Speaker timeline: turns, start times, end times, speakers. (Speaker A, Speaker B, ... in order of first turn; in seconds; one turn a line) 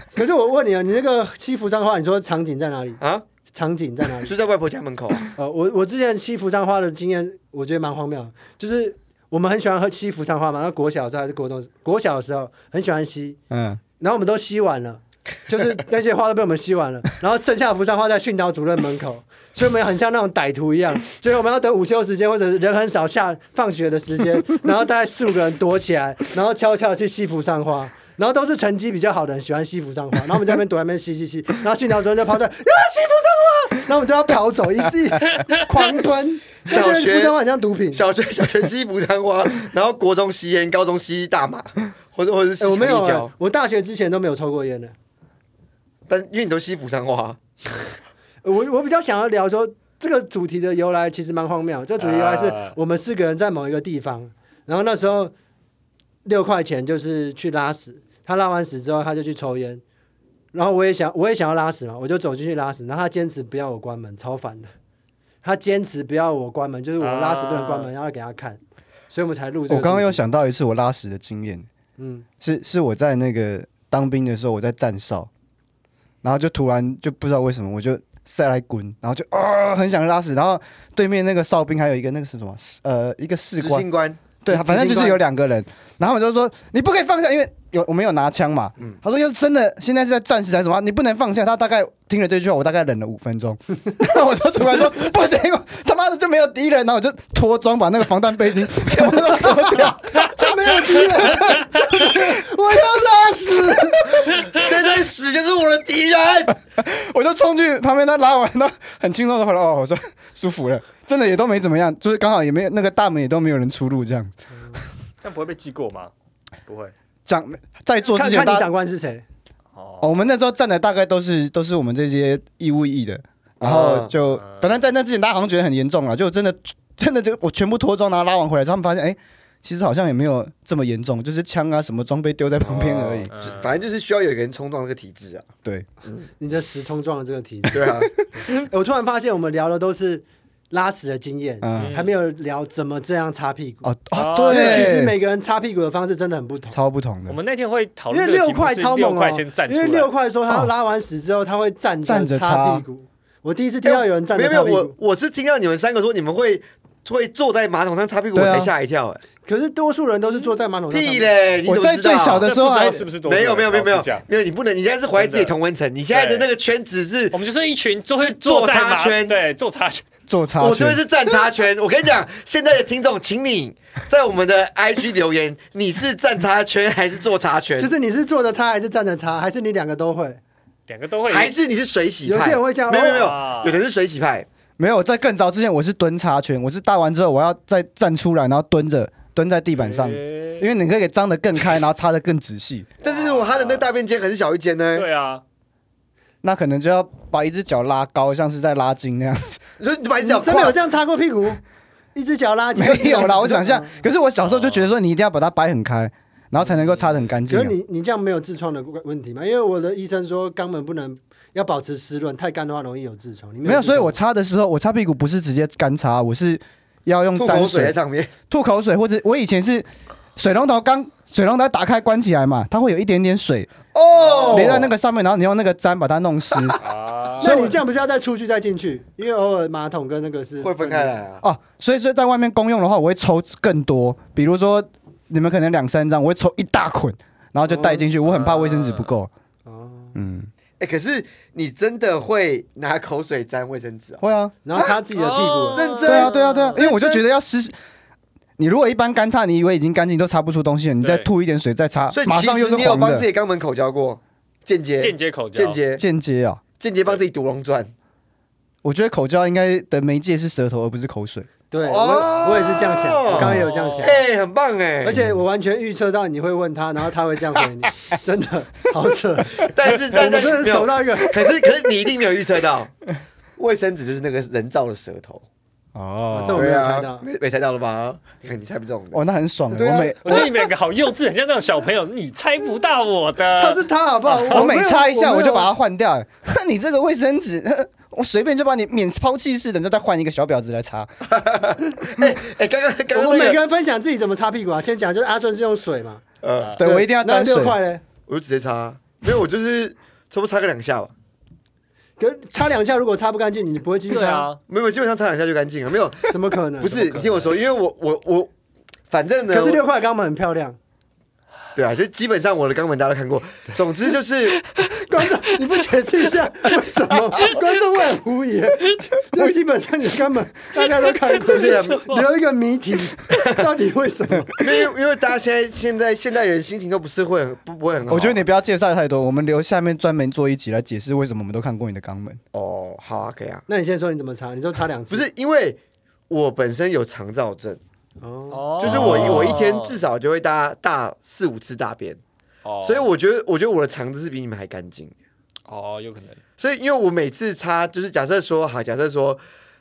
Speaker A: 0.1-3.0
Speaker B: 3.0-3.2
Speaker A: 3.5-4.3
Speaker B: 4.2-5.3
Speaker A: 5.4-13.4
Speaker C: 13.5-13.8
Speaker A: 14.0-38.0
Speaker B: 36.7-37.4
Speaker B: 37.9-43.3
Speaker A: 42.6-44.9
Speaker B: 46.1-47.4
Speaker A: 48.4-55.3
Speaker D: 52.0-52.8
Speaker A: 56.2-59.8
Speaker A: 60.5-64.7
Speaker A: 65.4-70.2
Speaker D: 67.0-67.9
Speaker C: 69.7-71.7
Speaker A: 72.0-72.3
Speaker C: 72.4-75.3
Speaker C: 76.2-83.8
Speaker B: 83.6-84.2
Speaker C: 84.4-100.2
Speaker A: 84.5-85.2
Speaker A: 100.2-104.3
Speaker D: 100.2-101.9
Speaker B: 104.4-106.6
Speaker C: 106.7-114.3
Speaker D: 115.2-116.1
Speaker D: 116.7-116.9
Speaker C: 117.3-118.7
Speaker A: 118.0-119.2
Speaker D: 119.8-120.1
Speaker C: 120.0-133.3
Speaker B: 123.6-124.1
Speaker D: 124.2-124.8
Speaker B: 132.6-135.5
Speaker D: 133.3-133.8
Speaker A: 136.4-137.9
Speaker B: 137.7-138.1
Speaker A: 138.5-143.9
Speaker C: 141.6-142.0
Speaker D: 141.8-142.1
Speaker C: 143.8-145.2
Speaker D: 144.1-145.0
Speaker A: 144.4-146.8
Speaker C: 146.7-147.4
Speaker D: 147.3-150.1
Speaker A: 148.1-154.9
Speaker C: 152.1-152.8
Speaker B: 153.8-159.2
Speaker C: 158.3-158.7
Speaker A: 159.4-161.3
Speaker B: 160.9-162.5
Speaker C: 161.7-163.1
Speaker D: 162.3-164.2
Speaker B: 163.2-167.4
Speaker D: 165.1-165.6
Speaker D: 166.1-166.5
Speaker D: 167.3-170.0
Speaker B: 168.2-169.4
Speaker C: 170.3-171.0
Speaker B: 170.6-177.9
Speaker A: 177.8-180.4
Speaker D: 180.9-181.5
Speaker B: 181.3-184.5
Speaker A: 182.2-183.3
Speaker D: 182.9-183.8
Speaker C: 184.8-192.9
Speaker D: 189.8-190.7
Speaker B: 193.0-195.1
Speaker D: 193.0-193.9
Speaker D: 194.9-195.4
Speaker C: 196.4-199.6
Speaker B: 199.8-200.8
Speaker A: 200.2-201.6
Speaker A: 202.2-204.0
Speaker C: 202.8-207.8
Speaker D: 204.5-204.9
Speaker D: 206.7-207.4
Speaker A: 207.5-214.2
Speaker C: 213.7-218.0
Speaker B: 217.3-218.3
Speaker C: 218.5-223.7
Speaker B: 223.9-224.9
Speaker D: 224.3-224.7
Speaker C: 224.5-226.8
Speaker D: 226.8-227.7
Speaker A: 227.4-231.2
Speaker C: 227.4-227.8
Speaker B: 230.6-231.4
Speaker C: 231.4-239.3
Speaker A: 237.7-238.1
Speaker D: 238.2-239.1
Speaker A: 239.7-240.2
Speaker C: 240.2-240.5
Speaker B: 240.8-244.2
Speaker C: 244.2-244.6
Speaker A: 244.6-245.9
Speaker D: 245.2-246.8
Speaker B: 245.7-247.2
Speaker C: 246.1-247.7
Speaker C: 248.6-253.3
Speaker D: 251.0-251.3
Speaker B: 252.1-256.0
Speaker D: 255.0-255.8
Speaker C: 256.0-256.6
Speaker B: 256.8-257.9
Speaker C: 258.8-261.5
Speaker A: 261.7-264.2
Speaker B: 261.8-265.2
Speaker C: 263.3-263.6
Speaker D: 263.5-264.1
Speaker A: 265.0-271.6
Speaker B: 269.6-272.9
Speaker B: 273.6-275.4
Speaker C: 275.9-276.7
Speaker A: 276.3-277.3
Speaker B: 276.5-279.2
Speaker C: 279.1-280.5
Speaker B: 279.8-280.5
Speaker D: 280.2-284.6
Speaker A: 283.6-285.7
Speaker C: 284.5-291.1
Speaker B: 291.3-293.6
Speaker A: 293.1-296.2
Speaker B: 296.4-296.8
Speaker C: 296.8-297.8
Speaker A: 296.8-298.0
Speaker B: 298.3-301.1
Speaker A: 302.2-304.5
Speaker D: 304.1-304.6
Speaker B: 304.7-308.5
Speaker A: 306.3-307.3
Speaker D: 307.0-307.5
Speaker B: 309.1-309.8
Speaker A: 309.5-310.8
Speaker B: 311.8-314.6
Speaker A: 314.9-324.6
Speaker D: 321.4-322.3
Speaker B: 321.5-322.0
Speaker B: 323.3-323.6
Speaker B: 324.6-328.4
Speaker C: 328.1-332.4
Speaker B: 332.5-333.6
Speaker A: 333.7-335.3
Speaker B: 335.1-337.8
Speaker A: 338.2-339.2
Speaker D: 338.5-340.0
Speaker B: 338.8-342.2
Speaker D: 342.6-343.1
Speaker B: 342.8-345.1
Speaker D: 345.7-346.4
Speaker B: 346.6-349.4